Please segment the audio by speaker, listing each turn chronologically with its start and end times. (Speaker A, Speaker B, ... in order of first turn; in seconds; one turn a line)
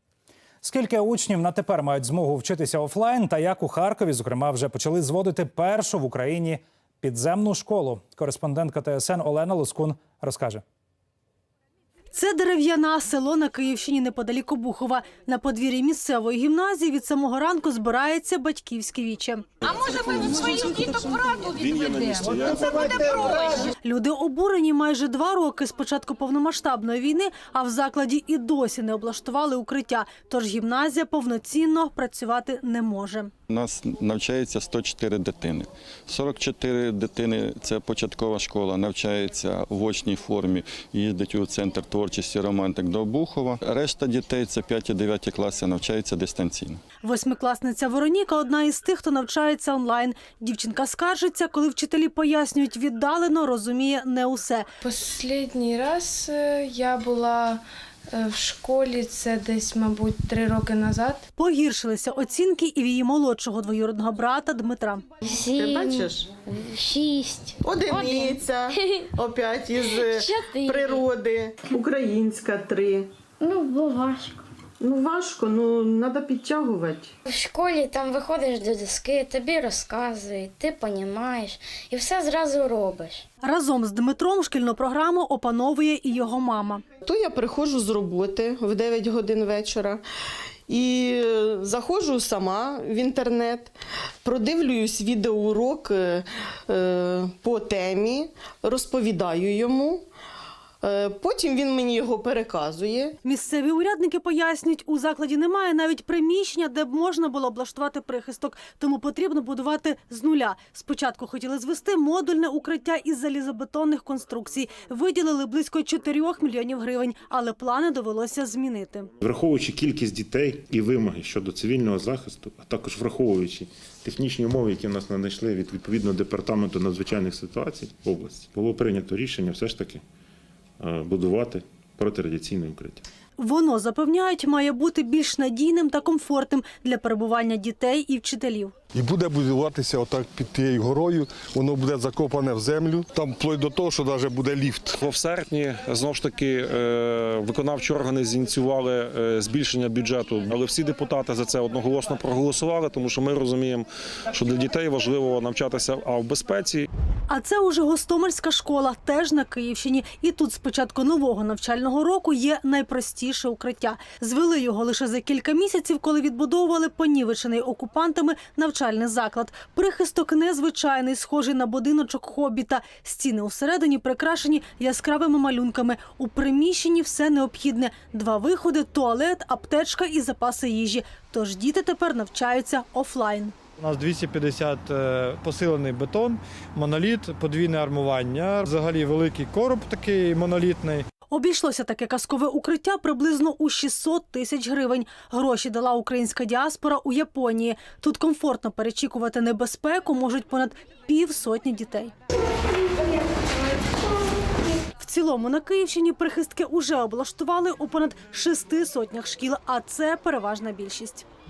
Speaker A: 0.6-10.6
Speaker B: 12.1-19.4
Speaker C: 20.2-23.0
Speaker D: 21.6-22.6
Speaker B: 23.8-33.3
Speaker E: 33.5-46.8
Speaker B: 47.0-54.7
Speaker F: 54.8-61.2
Speaker B: 61.4-65.1
Speaker G: 65.2-69.0
Speaker H: 65.5-66.3
Speaker H: 67.6-72.0
Speaker G: 70.0-71.0
Speaker H: 72.6-73.0
Speaker G: 73.4-74.4
Speaker G: 77.2-83.2
Speaker B: 83.4-86.8
Speaker H: 87.0-90.0
Speaker H: 90.7-93.7
Speaker H: 94.2-100.0
Speaker H: 100.8-103.2
Speaker B: 103.2-119.1
Speaker I: 119.2-130.0
Speaker I: 130.8-133.0
Speaker B: 133.4-138.7
Speaker J: 138.9-144.9
Speaker D: 145.0-156.9
Speaker B: 157.3-183.6
Speaker K: 183.8-191.1
Speaker B: 191.3-202.1
Speaker B: 205.0-211.2